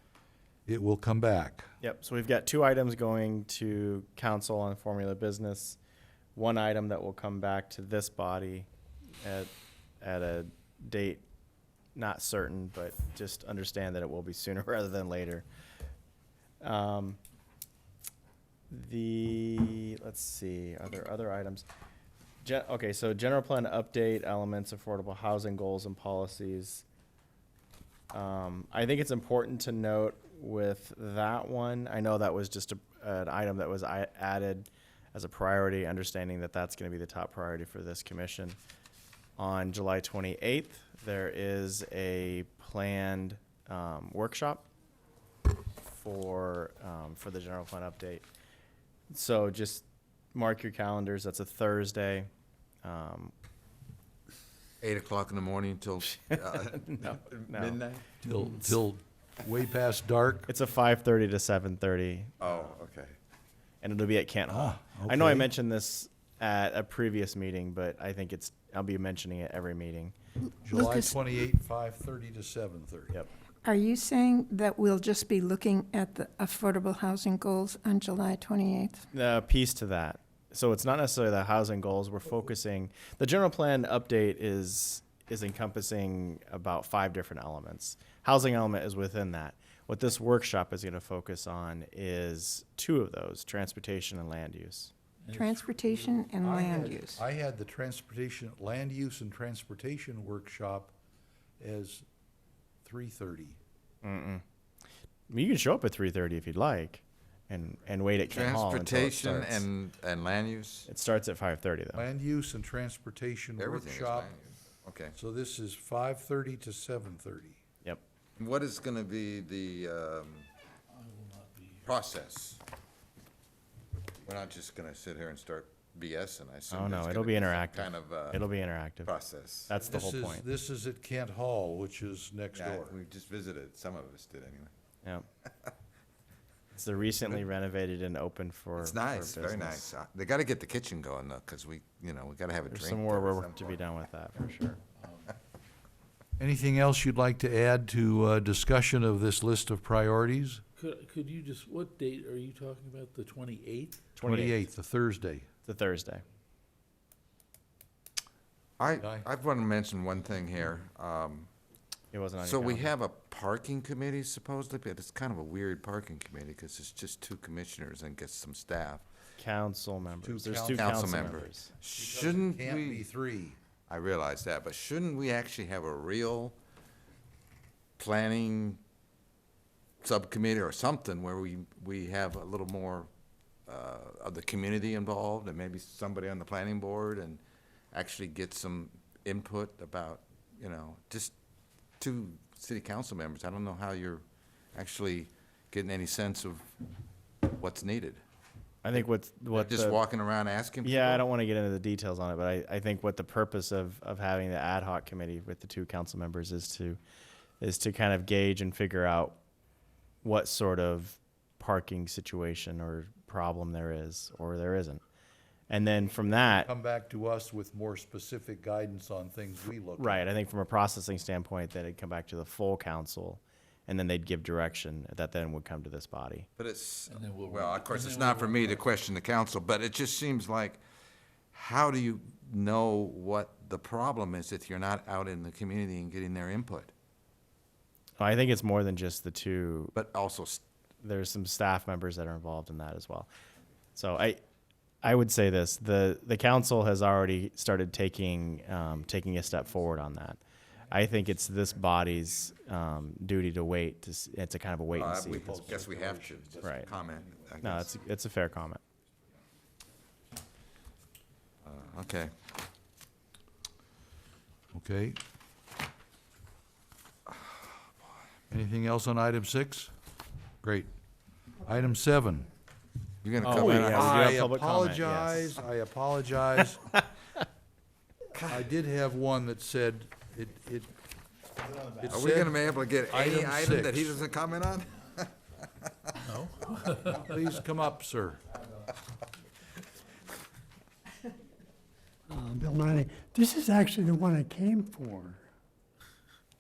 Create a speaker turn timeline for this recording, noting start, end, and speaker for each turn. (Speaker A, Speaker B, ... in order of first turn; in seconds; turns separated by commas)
Speaker A: 0.7-1.7, Speaker B: 1.8-5.8, Speaker B: 6.3-8.7, Speaker B: 9.2-11.2, Speaker B: 11.9-15.5, Speaker B: 16.6-17.2, Speaker B: 18.7-21.7, Speaker B: 22.4-26.9, Speaker B: 28.1-38.6, Speaker B: 39.4-44.7, Speaker B: 45.8-48.2, Speaker B: 49.1-52.3, Speaker B: 52.8-53.3, Speaker C: 54.8-58.1, Speaker B: 56.3-57.8, Speaker A: 58.2-60.5, Speaker B: 60.5-62.3, Speaker C: 62.4-63.2, Speaker B: 63.8-70.2, Speaker A: 64.5-65.5, Speaker A: 70.7-73.1, Speaker D: 70.7-71.1, Speaker D: 73.6-79.1, Speaker B: 79.1-94.9, Speaker A: 95.2-100.9, Speaker D: 95.3-97.2, Speaker A: 101.6-102.0, Speaker A: 102.8-103.6, Speaker B: 104.0-104.4, Speaker B: 105.3-109.7, Speaker C: 108.3-110.9, Speaker B: 110.9-112.0, Speaker A: 111.9-114.3, Speaker C: 113.6-115.2, Speaker A: 115.1-117.6, Speaker C: 118.4-120.5, Speaker E: 120.9-121.8, Speaker C: 121.8-122.6, Speaker C: 124.2-128.4, Speaker B: 126.7-129.1, Speaker C: 129.1-129.7, Speaker B: 129.7-130.4, Speaker A: 129.7-132.9, Speaker C: 132.6-134.7, Speaker B: 136.7-139.9, Speaker C: 138.8-143.8, Speaker B: 142.7-144.8, Speaker E: 145.0-145.3, Speaker A: 146.4-150.6, Speaker E: 150.8-154.1, Speaker B: 154.2-154.6, Speaker A: 154.2-155.5, Speaker B: 155.7-156.2, Speaker C: 158.8-161.5, Speaker A: 159.0-159.3, Speaker B: 162.1-162.9, Speaker C: 162.4-169.1, Speaker B: 169.4-171.7, Speaker A: 170.2-171.4, Speaker C: 170.7-173.1, Speaker A: 171.9-173.6, Speaker C: 173.9-176.6, Speaker C: 178.0-178.8, Speaker C: 180.0-183.1, Speaker C: 183.7-191.3, Speaker C: 192.0-196.7, Speaker C: 197.4-198.2, Speaker B: 198.8-200.0, Speaker C: 199.5-201.2, Speaker B: 200.8-207.0, Speaker B: 207.6-209.4, Speaker B: 210.2-215.0, Speaker B: 215.7-216.7, Speaker A: 216.4-220.3, Speaker B: 220.0-226.5, Speaker C: 226.6-230.8, Speaker E: 227.1-228.8, Speaker C: 231.5-236.9, Speaker B: 238.2-239.9, Speaker C: 239.9-240.6, Speaker B: 241.0-243.3, Speaker B: 243.9-244.4, Speaker B: 245.0-250.4, Speaker B: 250.9-255.6, Speaker C: 254.9-257.9, Speaker A: 255.3-257.2, Speaker B: 256.6-256.9, Speaker B: 257.6-258.8, Speaker C: 261.6-262.3, Speaker A: 264.7-265.2, Speaker A: 268.5-269.9, Speaker A: 270.6-270.9, Speaker A: 271.6-272.5, Speaker C: 273.2-274.4, Speaker B: 273.4-275.6, Speaker A: 273.4-277.0, Speaker A: 278.5-280.9, Speaker A: 281.8-284.2, Speaker C: 282.1-285.3, Speaker E: 286.2-287.4, Speaker A: 287.2-288.4, Speaker F: 292.3-295.4